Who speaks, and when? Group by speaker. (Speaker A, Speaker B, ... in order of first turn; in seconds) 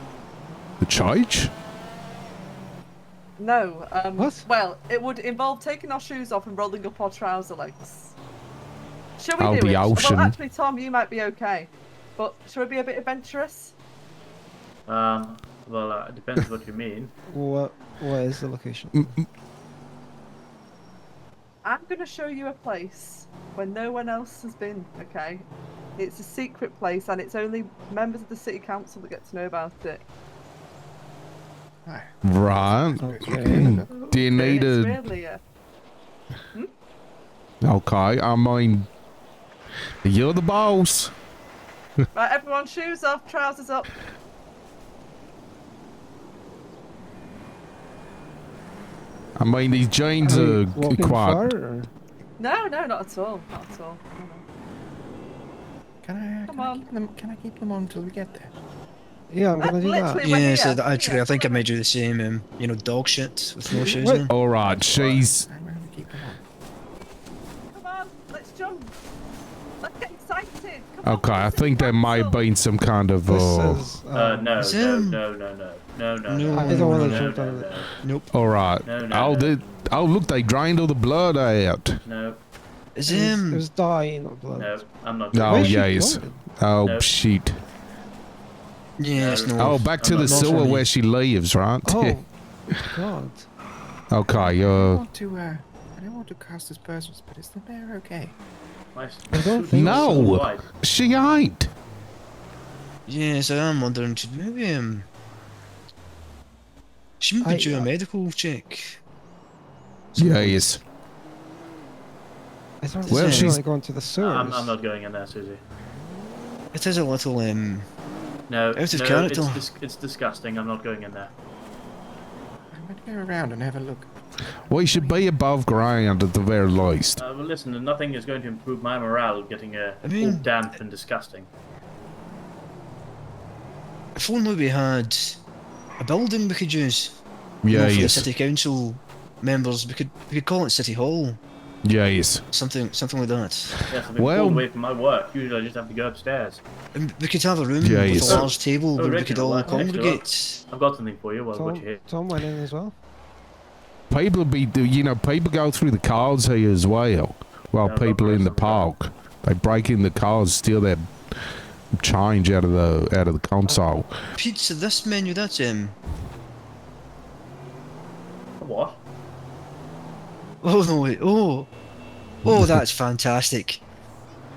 Speaker A: 0.8-1.5, 9.4-10.4, 18.9-19.2, 32.2-35.0, 37.6-38.9, 40.0-41.1, 49.4-51.5, 64.2-65.5, 71.0-73.8, 78.3-82.0, 85.3-87.6, 89.6-92.2, 94.1-95.0, 99.7-101.7, 110.2-110.8, 113.1-113.6, 124.7-127.2, 137.6-138.3, 141.8-142.4, 143.7-144.7, 147.8-148.4, 154.1-161.1, 161.9-164.2, 172.5-172.8
Speaker B: 3.4-8.2, 9.2-13.8, 21.6-30.0, 33.9-35.4, 42.1-43.9, 52.4-54.4, 56.5-56.9, 59.6-61.7, 67.7-68.9, 69.8-72.4
Speaker C: 4.2-4.5, 17.3-19.1, 33.0-33.8, 50.2-51.9, 59.3-60.3, 63.9-64.3, 73.3-74.4, 76.5-77.7, 83.0-84.8, 85.4-86.4, 91.8-93.5, 99.3-100.4, 107.4-107.9, 110.2-110.5, 112.8-114.8, 151.5-152.9
Speaker D: 14.9-17.1, 64.8-65.3, 74.1-77.9, 78.8-79.6, 82.0-82.4, 84.5-85.8, 86.8-87.1, 89.1-90.6, 98.9-100.7, 114.2-115.6, 118.5-121.3, 127.2-131.5, 143.9-146.6, 148.2-152.0, 157.8-158.9, 168.6-169.0
Speaker E: 31.9-33.9, 56.0-58.5, 63.7-66.4, 94.5-98.4, 122.7-125.3
Speaker F: 60.2-64.3, 74.5-75.2, 76.3-77.3, 78.0-78.3, 83.0-83.7, 89.0-90.9, 103.1-105.1, 107.2-109.0, 110.3-110.7, 113.1-113.6, 116.7-117.9, 118.8-119.7, 130.0-130.6, 134.2-135.4, 136.0-141.4, 142.5-143.8, 146.9-150.6, 164.4-166.0, 170.6-171.7, 172.5-173.8